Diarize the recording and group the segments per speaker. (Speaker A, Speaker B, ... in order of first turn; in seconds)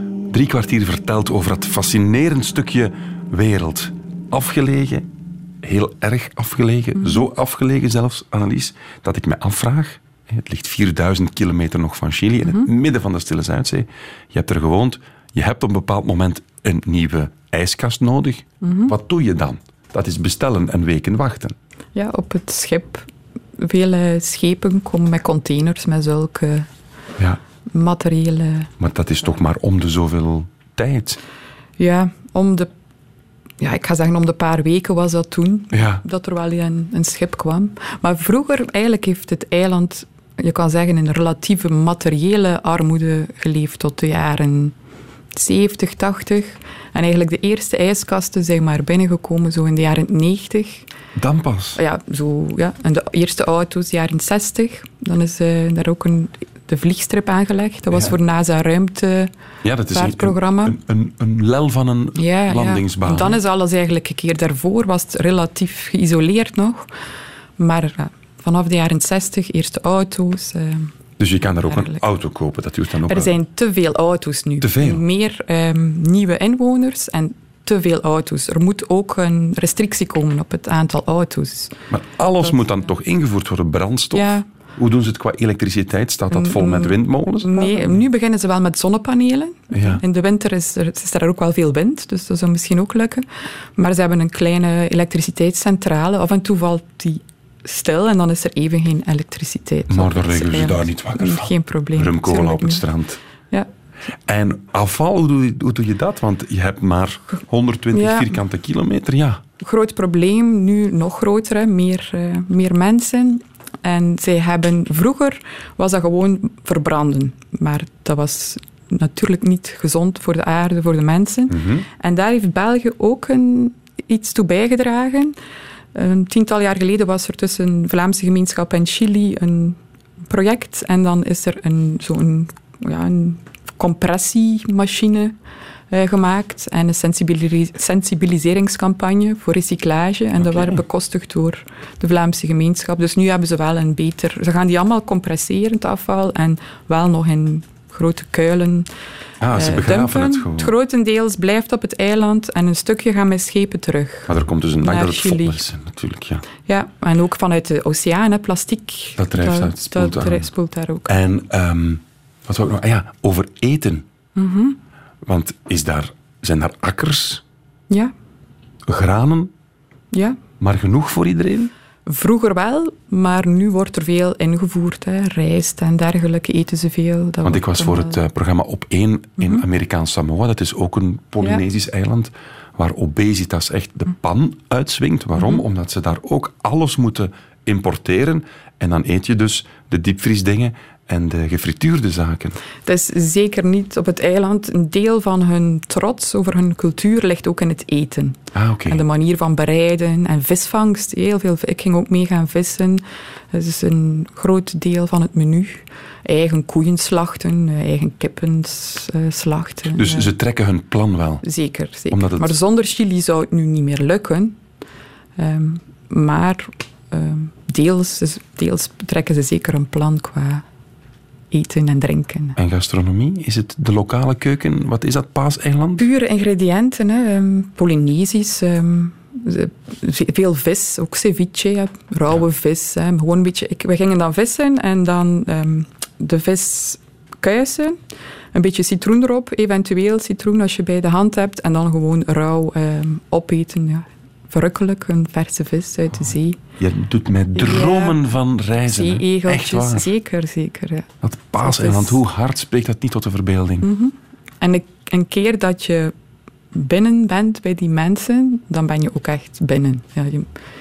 Speaker A: 0.3-5.0, 5.6-21.6, 28.8-31.2, 35.7-36.0, 51.1-51.8, 59.6-63.4, 71.2-73.3, 74.6-75.0, 81.9-88.0, 89.7-90.0, 99.9-103.2, 104.3-109.4, 121.5-121.9, 140.4-140.8, 149.4-150.7, 154.3-156.4, 159.2-160.5, 161.1-164.1, 165.2-167.4, 168.9-169.5, 170.6-171.7, 177.4-192.6, 198.5-199.0, 209.9-211.4, 212.1-212.6, 222.6-226.1, 246.8-250.1, 251.2-253.9
Speaker B: 7.0-7.2, 12.4-12.7, 18.6-18.9, 21.9-26.7, 27.7-28.7, 31.8-32.7, 33.6-44.7, 45.3-50.9, 51.8-59.3, 59.9-60.8, 62.1-66.9, 67.6-70.9, 71.6-72.0, 73.1-81.8, 82.4-82.8, 84.1-84.5, 86.3-102.9, 107.9-108.4, 109.6-125.4, 125.9-135.3, 135.9-148.9, 149.5-154.3, 154.8-155.6, 156.6-161.1, 164.3-164.8, 170.1-170.4, 172.1-178.2, 179.4-179.6, 185.4-185.6, 192.8-210.3, 211.4-214.6, 215.4-220.6, 221.5-222.6, 226.0-238.0, 238.5-246.6, 247.5-248.2, 248.9-252.2, 253.8-256.1, 256.7-260.5